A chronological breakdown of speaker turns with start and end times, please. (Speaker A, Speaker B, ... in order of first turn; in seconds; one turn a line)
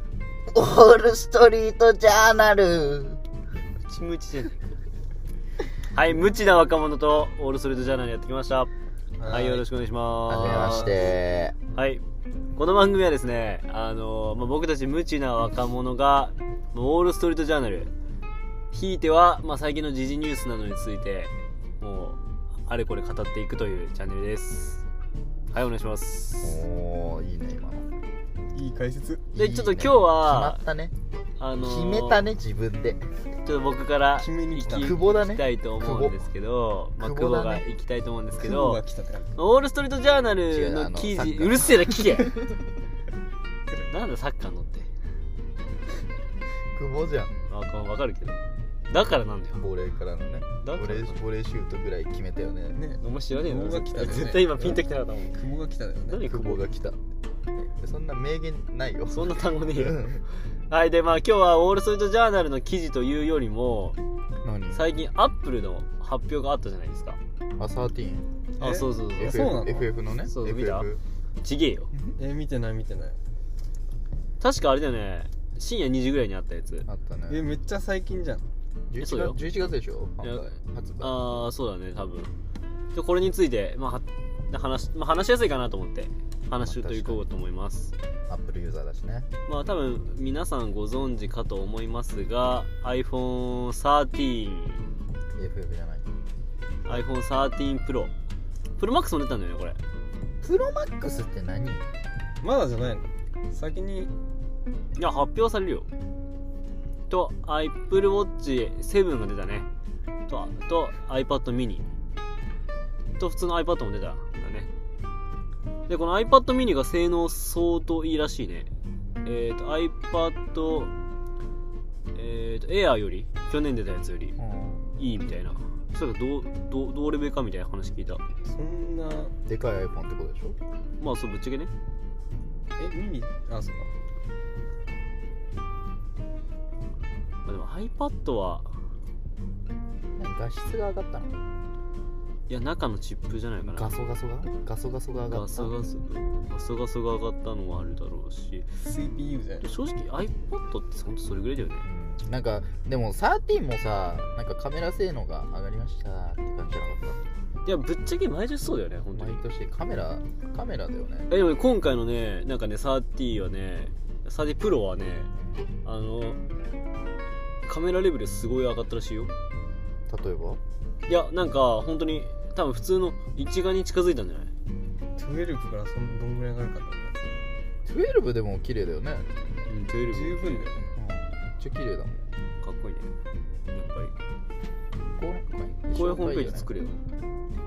Speaker A: 0.5-3.2
Speaker B: 3.8-4.6
Speaker B: 5.9-8.7
Speaker C: 9.2-9.7
Speaker B: 9.2-11.1
Speaker A: 10.3-11.6
Speaker B: 11.7-12.0
Speaker B: 12.6-17.9
Speaker B: 18.7-24.8
Speaker B: 25.5-26.6
Speaker A: 26.4-27.9
Speaker C: 28.5-29.3
Speaker A: 29.3-30.9
Speaker B: 29.4-30.6
Speaker B: 31.4-32.2
Speaker A: 31.6-33.1
Speaker B: 33.5-38.8
Speaker C: 34.2-35.0
Speaker A: 34.7-36.2
Speaker A: 37.0-37.7
Speaker C: 38.4-39.4
Speaker B: 39.4-42.4
Speaker A: 40.5-42.3
Speaker B: 43.9-44.9
Speaker A: 46.7-47.3
Speaker B: 47.5-49.6
Speaker A: 49.6-52.8
Speaker B: 50.6-51.2
Speaker C: 52.7-56.2
Speaker B: 53.0-55.4
Speaker B: 56.1-56.7
Speaker A: 56.2-57.0
Speaker A: 57.5-60.2
Speaker B: 59.1-60.1
Speaker B: 60.7-64.0
Speaker A: 64.4-64.8
Speaker B: 64.7-67.2
Speaker A: 67.6-68.3
Speaker B: 68.6-69.5
Speaker C: 68.6-69.9
Speaker A: 69.2-71.0
Speaker B: 70.2-70.9
Speaker B: 71.4-71.9
Speaker C: 71.9-73.2
Speaker B: 74.4-76.9
Speaker A: 76.9-77.5
Speaker C: 77.3-78.5
Speaker A: 78.9-81.3
Speaker B: 79.0-79.4
Speaker B: 81.0-82.3
Speaker B: 82.9-87.9
Speaker A: 86.6-87.2
Speaker A: 88.3-89.3
Speaker B: 89.5-94.8
Speaker A: 95.3-96.1
Speaker B: 96.9-98.1
Speaker B: 98.8-99.8
Speaker A: 100.4-101.9
Speaker C: 102.4-104.1
Speaker B: 105.0-105.9
Speaker B: 107.1-109.7
Speaker B: 110.3-111.8
Speaker B: 113.2-114.7
Speaker B: 115.9-118.7
Speaker B: 119.2-120.9
Speaker B: 122.1-124.4
Speaker A: 124.4-124.8
Speaker B: 125.0-128.2
Speaker C: 128.4-129.3
Speaker A: 129.5-130.6
Speaker B: 131.0-131.7
Speaker C: 132.8-133.9
Speaker B: 137.5-138.7
Speaker A: 140.2-141.4
Speaker B: 142.5-144.0
Speaker A: 143.7-145.7
Speaker B: 145.3-148.7
Speaker C: 148.8-149.7
Speaker B: 149.6-151.8
Speaker A: 151.8-157.2
Speaker B: 157.7-159.4
Speaker A: 159.2-161.3
Speaker B: 161.3-165.3
Speaker A: 165.4-165.6
Speaker B: 165.8-166.4
Speaker B: 167.7-169.3
Speaker A: 170.1-170.6
Speaker B: 171.1-174.5
Speaker C: 175.2-177.3
Speaker A: 177.8-179.3
Speaker B: 179.7-180.8
Speaker C: 180.1-180.9
Speaker A: 180.9-182.3
Speaker B: 182.6-183.1
Speaker B: 183.7-184.1
Speaker A: 185.2-186.7
Speaker B: 185.9-187.0